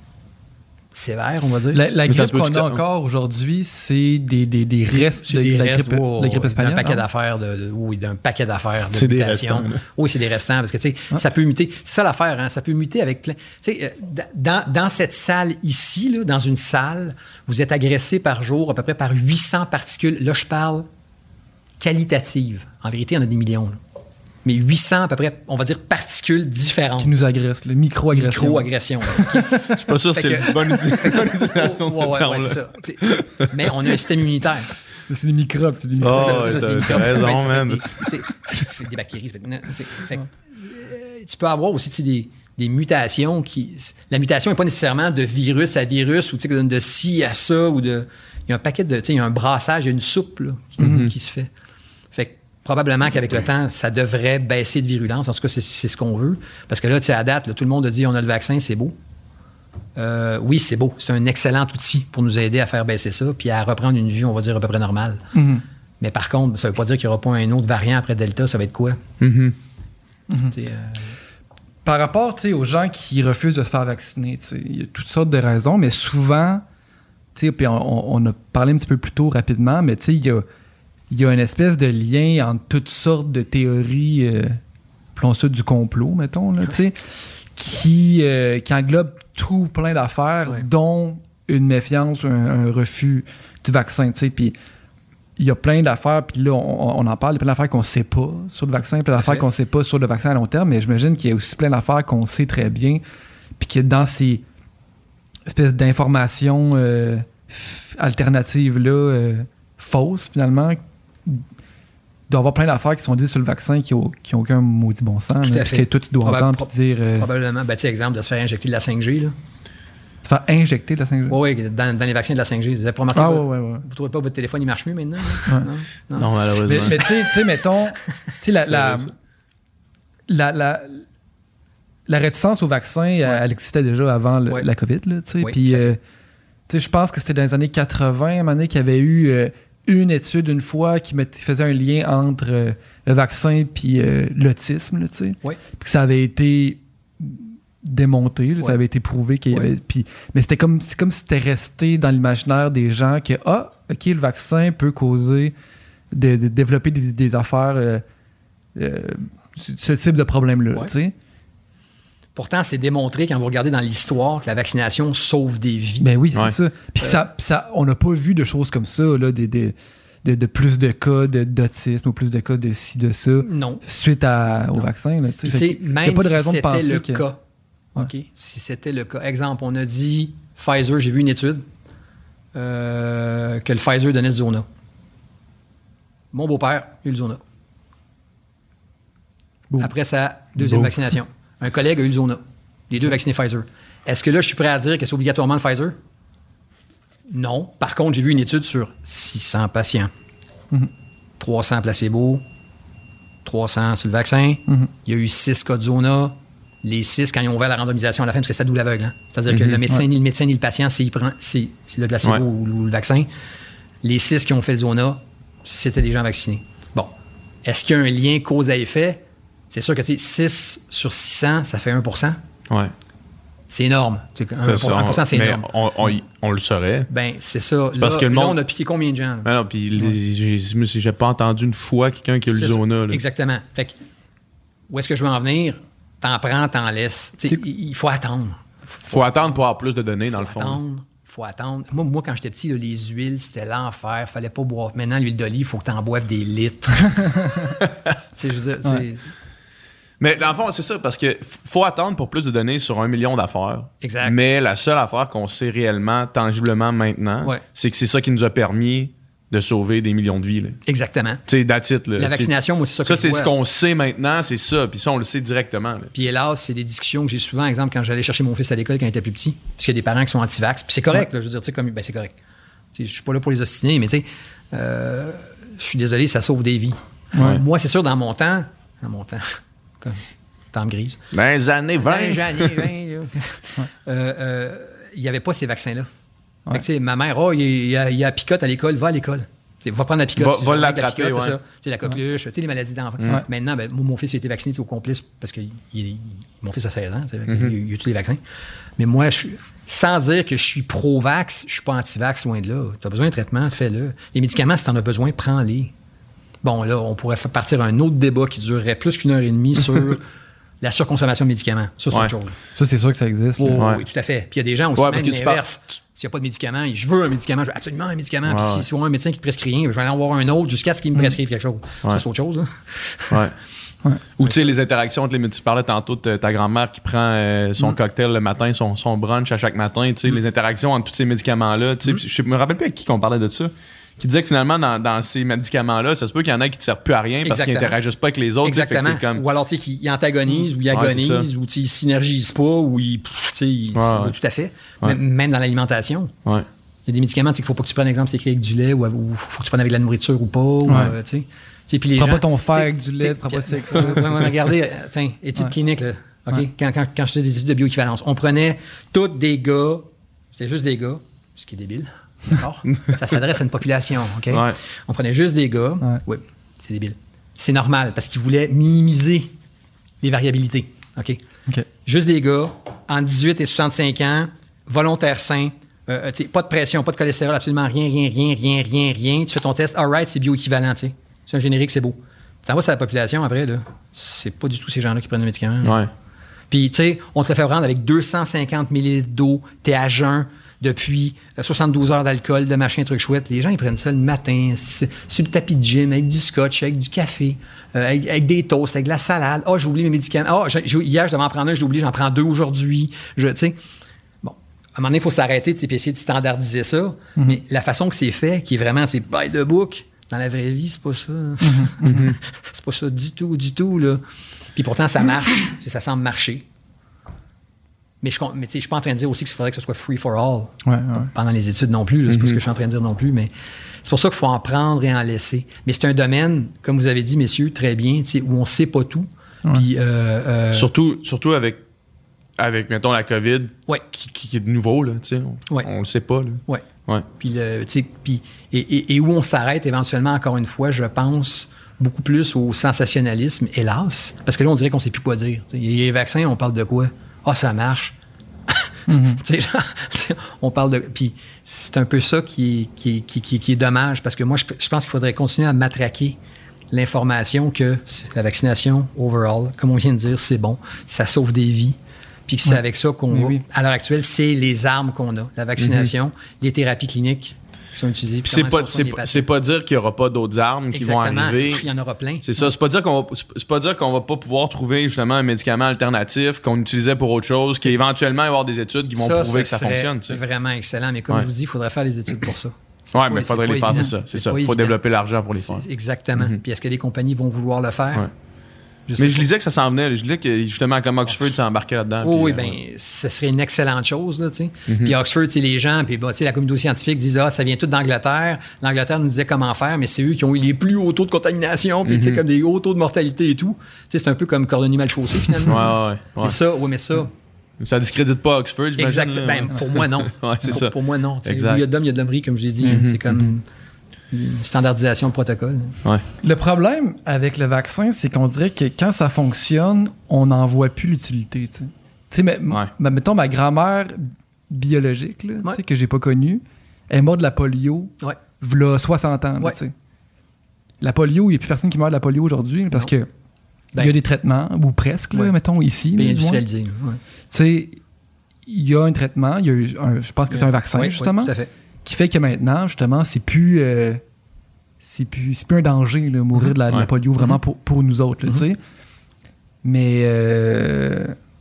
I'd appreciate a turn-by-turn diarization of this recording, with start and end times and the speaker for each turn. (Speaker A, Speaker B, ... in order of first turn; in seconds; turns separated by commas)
Speaker A: 0.9-1.8, Speaker B: 1.7-7.0, Speaker C: 2.1-2.8, Speaker A: 4.9-20.9, Speaker C: 8.9-9.8, Speaker A: 21.8-23.8, Speaker A: 24.4-27.1, Speaker B: 27.0-29.6, Speaker A: 28.1-34.7, Speaker C: 29.7-33.5, Speaker B: 35.1-37.1, Speaker A: 36.0-51.5, Speaker C: 36.0-38.1, Speaker B: 50.8-51.1, Speaker C: 50.8-51.1, Speaker A: 52.1-59.0, Speaker A: 60.0-65.3, Speaker B: 65.3-65.6, Speaker A: 66.0-69.0, Speaker C: 69.2-69.6, Speaker A: 70.5-71.1, Speaker B: 71.8-76.6, Speaker B: 77.3-80.5, Speaker B: 81.1-84.6, Speaker B: 85.2-87.0, Speaker B: 87.5-94.5, Speaker B: 95.4-103.0, Speaker A: 99.2-99.5, Speaker B: 103.6-104.4, Speaker B: 105.5-111.4, Speaker B: 112.3-117.3, Speaker A: 115.4-119.3, Speaker B: 120.2-121.4, Speaker A: 121.3-127.4, Speaker B: 123.1-123.9, Speaker C: 126.2-127.0, Speaker B: 126.7-129.1, Speaker C: 128.7-129.1, Speaker B: 130.3-131.1, Speaker B: 132.1-136.0, Speaker A: 135.4-135.9, Speaker B: 136.7-155.5, Speaker B: 156.1-158.0, Speaker B: 158.8-161.1, Speaker A: 162.3-166.1, Speaker B: 166.0-177.2, Speaker A: 173.4-173.8, Speaker A: 175.4-177.4, Speaker A: 177.9-181.7, Speaker A: 182.6-184.7, Speaker A: 186.3-187.4, Speaker A: 189.8-195.9, Speaker B: 190.6-190.9, Speaker A: 197.3-200.1, Speaker A: 201.4-202.4, Speaker A: 203.4-213.3, Speaker C: 209.5-209.8, Speaker A: 214.0-217.1, Speaker A: 217.7-222.4, Speaker A: 223.7-225.7, Speaker C: 224.6-227.1, Speaker A: 227.1-229.5, Speaker C: 228.0-228.6, Speaker C: 229.4-233.2, Speaker A: 232.5-234.0, Speaker A: 234.9-239.6, Speaker C: 239.1-240.8, Speaker A: 240.3-247.6, Speaker B: 247.1-247.7, Speaker A: 248.4-249.3, Speaker C: 250.2-260.8, Speaker A: 254.0-254.4, Speaker A: 260.9-261.4, Speaker C: 261.5-262.5, Speaker A: 262.2-263.5, Speaker C: 263.0-266.3, Speaker A: 266.1-272.4, Speaker A: 272.9-281.2, Speaker B: 277.3-277.6, Speaker C: 281.3-282.9, Speaker A: 282.0-286.1, Speaker A: 286.7-298.4, Speaker C: 290.4-291.6, Speaker C: 297.5-297.7, Speaker A: 299.0-305.9, Speaker A: 306.6-310.2, Speaker A: 310.8-312.6, Speaker B: 312.8-313.9, Speaker A: 313.6-323.5, Speaker C: 313.8-314.0, Speaker C: 315.0-315.6, Speaker C: 318.5-318.9, Speaker C: 324.4-339.4, Speaker A: 337.4-338.0, Speaker A: 338.6-346.3, Speaker C: 340.9-341.5, Speaker C: 343.9-344.4, Speaker A: 347.1-369.5, Speaker B: 350.9-351.1, Speaker B: 352.2-354.4, Speaker C: 362.9-363.2, Speaker C: 364.5-364.8, Speaker A: 370.2-371.4, Speaker A: 372.1-386.0, Speaker C: 385.8-386.1, Speaker A: 386.7-403.8, Speaker A: 404.4-414.2, Speaker B: 411.6-412.3, Speaker C: 412.1-412.4, Speaker A: 414.8-416.7, Speaker A: 418.2-420.8, Speaker B: 420.9-421.3, Speaker A: 421.3-423.5, Speaker C: 422.3-422.6, Speaker A: 424.0-430.9, Speaker C: 430.7-431.8, Speaker C: 432.6-437.3, Speaker A: 437.4-448.2, Speaker A: 448.7-456.4, Speaker B: 449.1-449.4, Speaker A: 456.9-469.5, Speaker B: 463.3-463.6, Speaker C: 465.8-466.1, Speaker C: 468.5-471.9, Speaker A: 470.9-472.5, Speaker C: 472.4-480.4, Speaker A: 479.1-485.0, Speaker C: 483.1-485.8, Speaker A: 485.5-488.3, Speaker A: 489.1-489.5, Speaker C: 489.2-492.8, Speaker A: 492.2-507.3, Speaker C: 494.9-495.1, Speaker C: 502.1-502.4, Speaker C: 505.7-506.6, Speaker C: 507.8-511.8, Speaker A: 509.0-513.6, Speaker C: 512.8-513.4, Speaker A: 514.3-516.0, Speaker B: 516.4-529.9, Speaker B: 531.0-533.3, Speaker B: 534.0-536.6, Speaker A: 536.1-537.2, Speaker B: 537.5-538.0, Speaker B: 538.7-544.2, Speaker A: 540.5-541.7, Speaker B: 545.0-548.8, Speaker B: 549.8-551.4